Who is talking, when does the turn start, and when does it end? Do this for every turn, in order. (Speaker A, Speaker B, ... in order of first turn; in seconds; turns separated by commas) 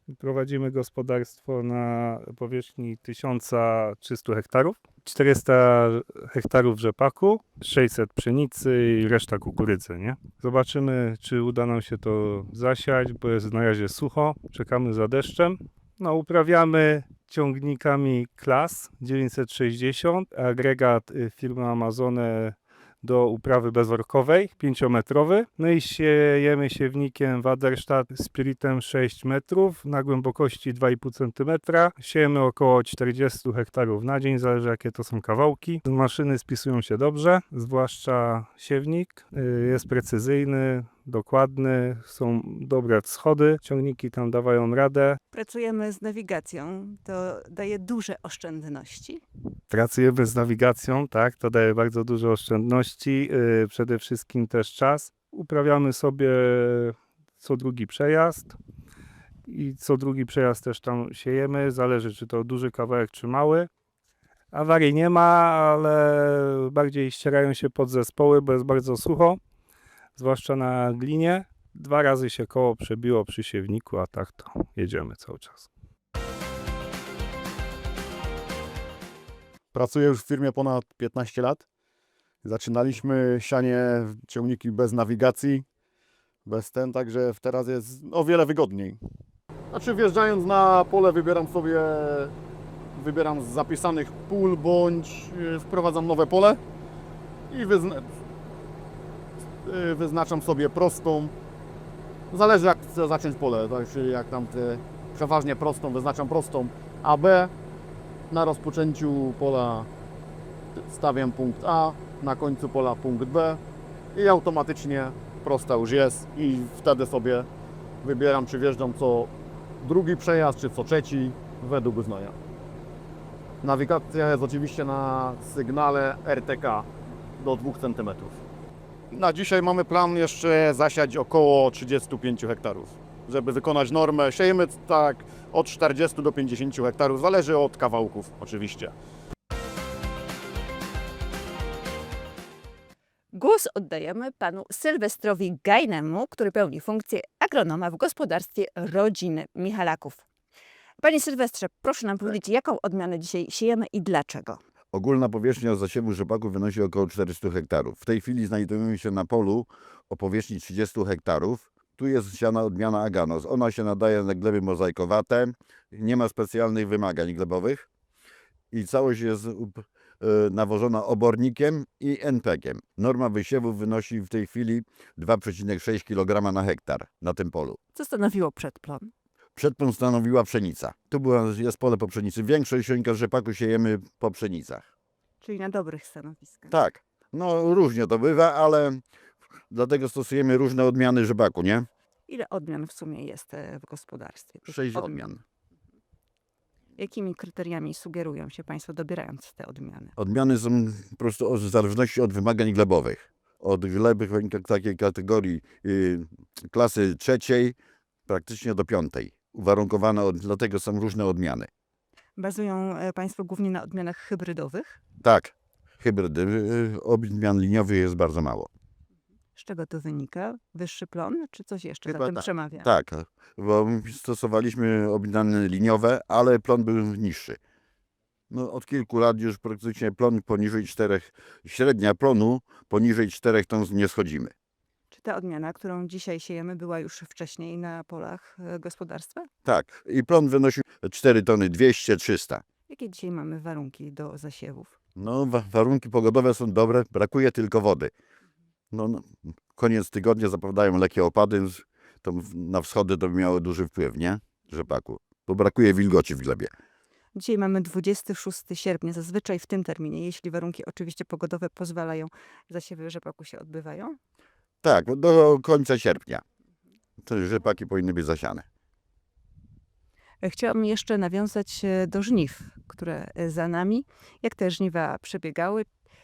Speaker A: 0.1-45.2, Speaker B: 45.3-49.2, Speaker A: 49.7-58.5, Speaker A: 59.5-63.7, Speaker A: 64.5-69.4, Speaker A: 70.2-75.7, Speaker C: 79.7-81.6, Speaker C: 82.4-85.6, Speaker C: 86.5-89.0, Speaker C: 89.7-92.3, Speaker C: 92.9-96.6, Speaker C: 97.5-98.1, Speaker C: 99.6-101.3, Speaker C: 102.3-107.5, Speaker C: 108.3-109.9, Speaker C: 110.8-113.6, Speaker C: 114.1-117.5, Speaker C: 118.0-122.3, Speaker C: 123.6-126.9, Speaker C: 127.4-128.4, Speaker C: 129.1-138.9, Speaker B: 143.3-150.2, Speaker B: 151.0-154.6, Speaker D: 154.9-167.9, Speaker D: 168.7-177.8, Speaker B: 177.9-179.1, Speaker D: 179.6-184.9, Speaker B: 185.4-186.7, Speaker D: 186.7-189.0, Speaker D: 189.7-191.9, Speaker B: 192.3-195.3, Speaker D: 194.7-195.4, Speaker B: 197.0-200.1, Speaker D: 200.2-207.7, Speaker D: 208.3-211.7, Speaker B: 212.4-215.0, Speaker D: 215.2-218.7, Speaker B: 219.6-222.9, Speaker D: 222.1-227.6, Speaker D: 228.5-234.5, Speaker B: 235.1-239.5, Speaker D: 239.6-242.6, Speaker B: 242.9-244.9, Speaker D: 245.2-248.1, Speaker D: 248.9-256.7, Speaker B: 257.3-264.2, Speaker D: 264.8-266.4, Speaker D: 267.2-268.6, Speaker B: 270.4-275.9